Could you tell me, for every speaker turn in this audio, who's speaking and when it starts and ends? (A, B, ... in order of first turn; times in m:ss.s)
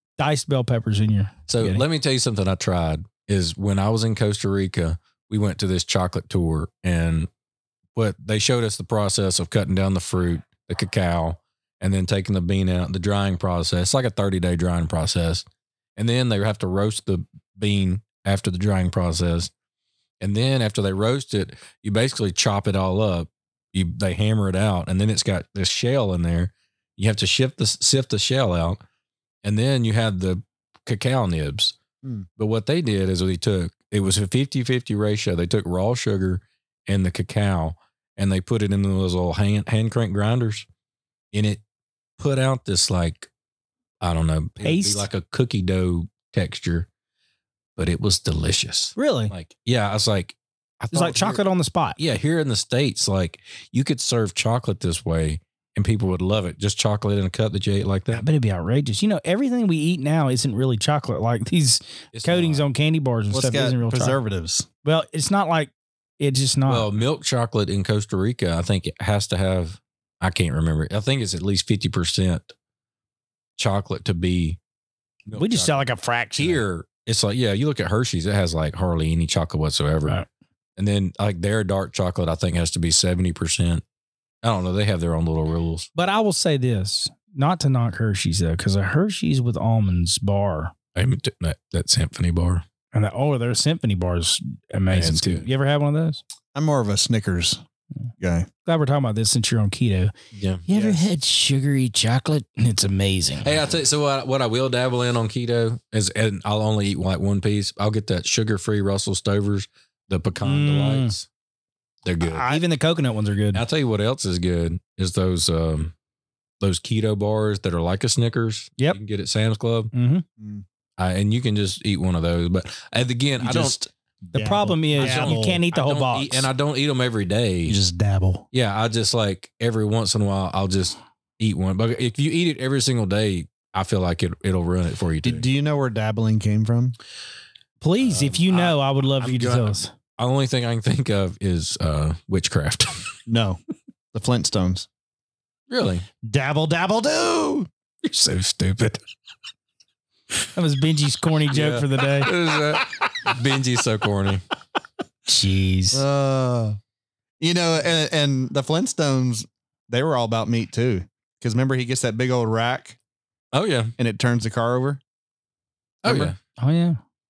0:00.2-0:01.8 A
0:01.5-0:07.3 B
0:08.0-0:15.4 B
0:16.0-0:19.5 B
0:20.2-0:28.8 B
0:29.4-0:31.8 B
0:32.4-0:40.7 B
0:41.3-0:41.6 B
0:42.2-0:43.3 B
0:44.0-0:46.9 B
0:44.6-0:45.1 A
0:47.8-0:51.4 B
0:49.0-0:49.3 A
0:50.9-0:52.0 A
0:52.0-0:58.2 B
0:58.1-1:04.2 A
1:02.1-1:02.7 B
1:03.3-1:04.7 C
1:04.8-1:06.9 A
1:06.7-1:12.5 B
1:13.6-1:14.6 B
1:15.3-1:15.8 B
1:15.3-1:16.6 A
1:16.4-1:20.2 B
1:20.8-1:23.8 B
1:24.4-1:25.9 B
1:26.0-1:30.7 A
1:31.0-1:32.6 B
1:32.9-1:36.2 A
1:34.9-1:35.5 B
1:36.5-1:37.6 C
1:38.2-1:38.5 C
1:38.6-1:40.1 A
1:40.3-1:40.6 B
1:40.7-1:43.6 A
1:40.7-1:41.0 C
1:43.4-1:51.3 B
1:50.4-1:51.1 A
1:52.0-1:52.5 B
1:52.2-1:52.6 C
1:52.5-1:53.6 A
1:53.5-1:55.9 B
1:56.6-1:59.9 B
1:59.9-2:00.2 A
2:00.4-2:00.6 C
2:01.0-2:03.8 B
2:03.4-2:05.6 C
2:04.4-2:06.5 A
2:05.0-2:07.8 B
2:07.7-2:08.4 C
2:08.5-2:15.4 B
2:15.2-2:17.0 C
2:17.8-2:19.9 A
2:18.0-2:23.1 B
2:23.3-2:23.6 C
2:24.1-2:24.9 C
2:25.7-2:26.1 B
2:26.2-2:27.7 C
2:28.1-2:29.0 B
2:30.5-2:32.3 A
2:31.5-2:34.4 B
2:35.3-2:36.0 A
2:35.9-2:36.8 C
2:37.4-2:43.0 C
2:43.5-2:43.9 B
2:44.0-2:45.0 C
2:46.0-2:46.4 B
2:46.0-2:46.4 C
2:46.6-2:47.0 A